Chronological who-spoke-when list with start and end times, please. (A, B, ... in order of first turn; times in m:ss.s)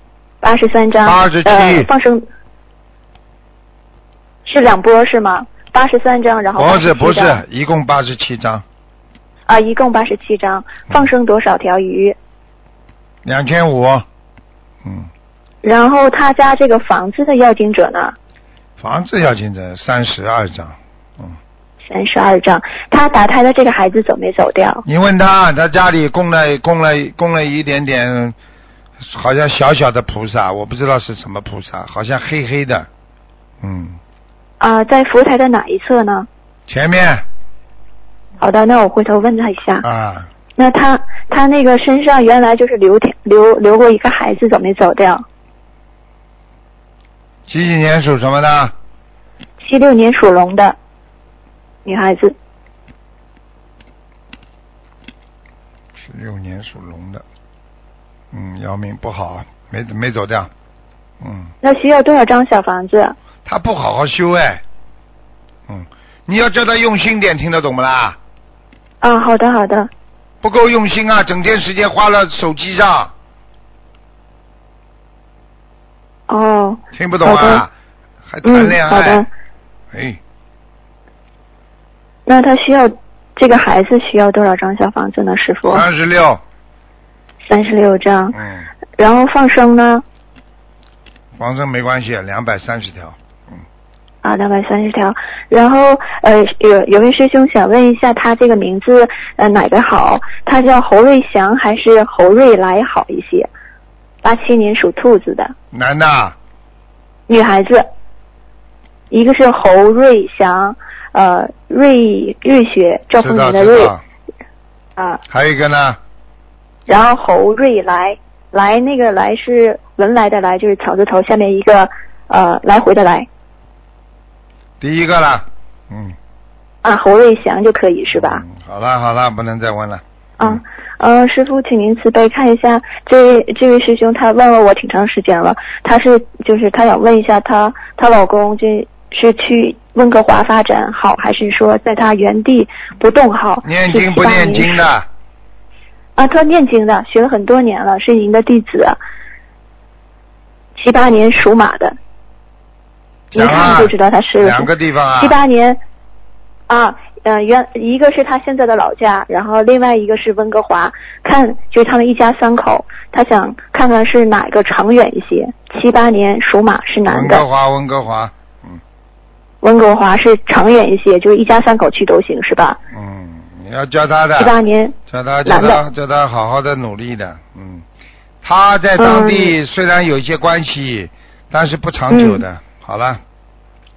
0:00.4-0:02.2 A
0:01.0-0:01.9 B
0:04.4-0:07.4 A
0:06.6-0:08.6 B
0:09.5-0:12.2 A
0:13.2-0:14.0 B
0:14.8-0:15.1 B
0:15.6-0:18.1 A
0:18.8-0:21.4 B
0:21.8-0:24.8 A
0:24.8-0:28.3 B
0:29.0-0:32.9 B
0:33.6-0:34.0 B
0:34.6-0:36.3 A
0:36.7-0:37.2 B
0:38.4-0:39.8 A
0:39.8-0:40.3 B
0:40.6-0:45.2 A
0:47.5-0:48.7 B
0:49.6-0:50.8 A
0:51.8-0:52.3 A
0:56.0-0:57.2 B
0:58.3-1:00.5 B
1:01.2-1:01.5 B
1:01.6-1:03.1 A
1:03.4-1:04.6 B
1:05.7-1:08.2 B
1:09.0-1:09.9 A
1:10.4-1:13.1 B
1:16.3-1:17.6 A
1:16.9-1:17.7 B
1:18.2-1:19.3 B
1:18.4-1:19.3 A
1:19.9-1:20.2 B
1:22.2-1:25.8 A
1:25.6-1:26.4 B
1:27.4-1:28.4 A
1:28.3-1:28.7 B
1:29.0-1:30.0 A
1:31.4-1:33.6 B
1:34.2-1:43.5 A
1:44.2-1:45.5 A
1:45.7-1:46.4 B
1:47.3-1:47.8 A
1:49.1-1:53.9 A
1:53.2-1:54.0 B
1:55.0-1:55.2 A
1:55.3-1:56.0 B
1:56.9-2:03.3 A
2:04.8-2:06.2 B
2:06.8-2:08.4 A
2:08.1-2:10.6 B
2:10.4-2:24.8 A
2:23.6-2:25.1 B
2:26.2-2:29.0 A
2:30.8-2:32.0 A
2:33.3-2:35.4 B
2:33.3-2:35.8 A
2:36.7-2:47.4 A
2:47.1-2:48.8 B
2:49.6-2:52.8 A
2:52.9-2:54.5 B
2:54.4-2:54.9 A
2:55.1-2:57.8 B
2:55.4-2:55.8 A
2:58.4-3:03.2 B
2:59.0-2:59.5 A